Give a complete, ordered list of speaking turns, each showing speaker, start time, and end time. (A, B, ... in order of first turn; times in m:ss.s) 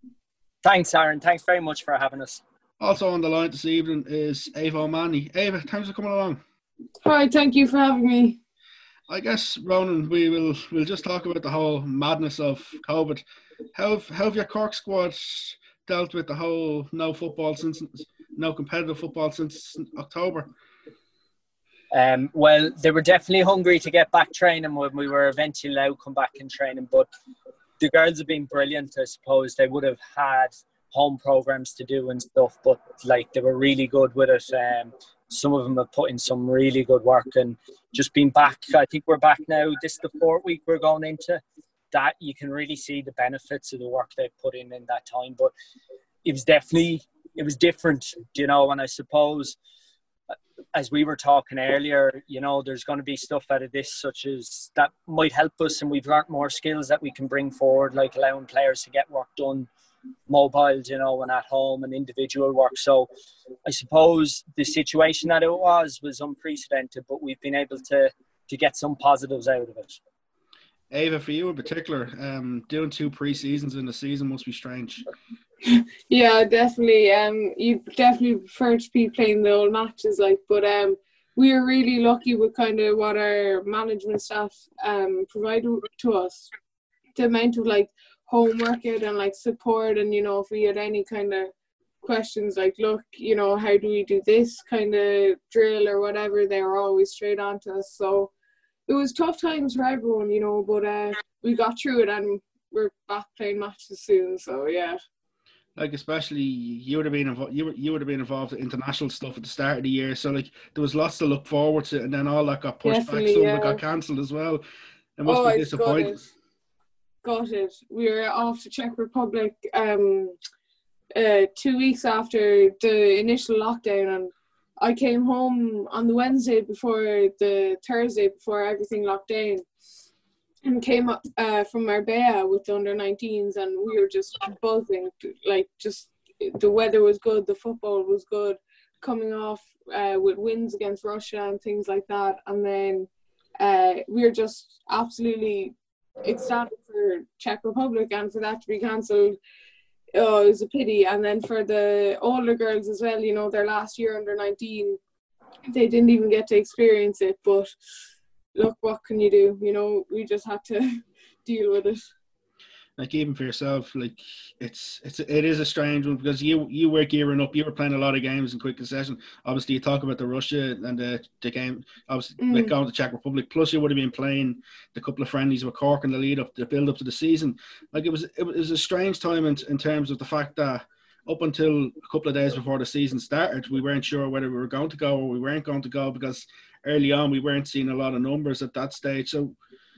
0:00.6-0:02.4 A
0:02.8-0:06.4 B
0:07.0-0:08.4 C
0:09.1-0:13.2 B
0:13.7-0:20.5 B
0:21.9-0:27.1 A
0:27.8-0:41.4 A
0:41.9-0:45.5 A
0:46.2-0:49.6 A
0:50.7-0:59.7 A
1:00.3-1:03.1 A
1:03.6-1:10.0 A
1:10.9-1:15.0 B
1:15.6-1:26.5 C
1:27.2-1:38.3 C
1:38.9-1:45.0 C
1:45.8-1:54.6 B
1:52.8-1:53.8 C
1:55.2-1:56.2 B
1:55.2-1:56.2 C
1:57.2-2:00.4 C
2:01.1-2:09.6 C
2:10.6-2:23.1 C
2:23.6-2:29.4 C
2:30.1-2:35.0 C
2:35.7-2:37.7 C
2:38.5-2:42.1 C
2:43.0-3:09.6 B
2:52.4-2:52.7 C